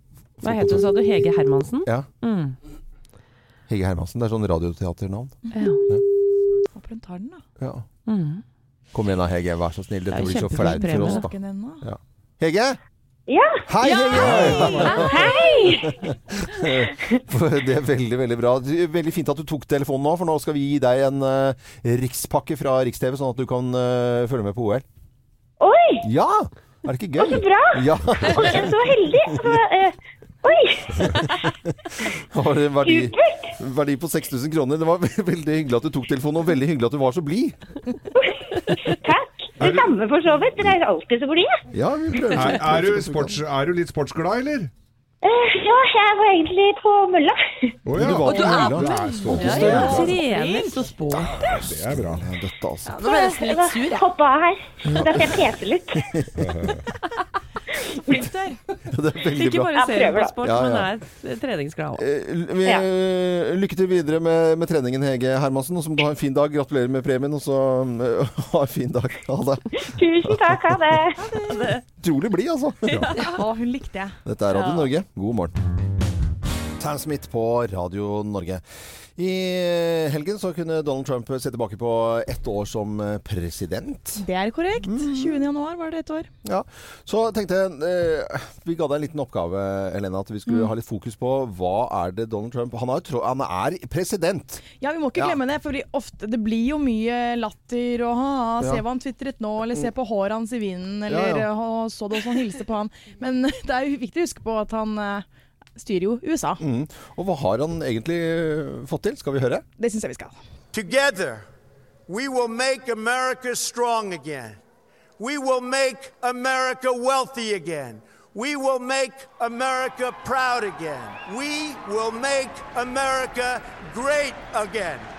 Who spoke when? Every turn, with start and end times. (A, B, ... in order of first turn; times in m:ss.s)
0:00.4-0:00.9 A
0:00.4-0:02.6 B
0:03.7-0:05.4 A
0:05.5-0:05.8 B
0:06.7-0:07.4 C
0:07.6-0:07.8 A
0:08.1-0:08.4 B
0:08.9-0:12.8 A
0:10.1-0:11.3 B
0:10.7-0:11.8 C
0:13.3-0:13.7 D
0:13.6-0:24.8 A
0:13.9-0:15.1 C
0:14.2-0:14.7 E
0:15.0-0:15.9 D
0:25.6-0:26.0 D
0:26.0-0:29.5 A
0:27.2-0:31.3 D
0:31.0-0:31.5 A
0:32.3-0:37.6 A
0:32.8-0:33.5 D
0:38.2-0:41.6 D
0:39.6-0:39.9 E
0:41.7-0:43.4 A
0:42.3-0:44.7 E
0:45.2-0:47.7 D
0:47.8-0:50.1 E
0:47.9-0:48.9 A
0:48.4-0:48.8 F
0:49.2-0:51.3 C
0:49.3-0:51.3 B
0:49.4-0:49.8 F
0:49.5-0:50.0 A
0:51.4-0:52.2 E
0:51.4-0:53.0 A
0:52.8-0:54.0 F
0:53.1-0:56.0 D
0:54.8-0:55.3 A
0:56.0-0:56.6 A
0:56.4-0:56.8 E
0:58.2-0:58.6 C
0:58.8-0:59.8 A
0:59.3-1:02.0 B
0:59.7-1:00.3 D
1:00.4-1:00.9 A
1:02.0-1:10.8 A
1:09.8-1:11.2 D
1:11.2-1:11.8 C
1:11.5-1:11.8 B
1:12.0-1:13.0 A
1:12.9-1:13.2 E
1:13.2-1:14.2 C
1:14.2-1:15.5 A
1:14.5-1:14.9 B
1:16.8-1:18.6 A
1:19.2-1:24.2 A
1:24.2-1:26.3 C
1:24.8-1:25.4 A
1:26.4-1:34.6 A
1:34.8-1:45.2 C
1:41.1-1:41.5 A
1:45.8-1:46.6 C
1:46.6-1:49.6 A
1:49.8-1:50.4 C
1:50.7-1:51.4 G
1:52.1-1:54.6 G
1:55.2-2:05.1 G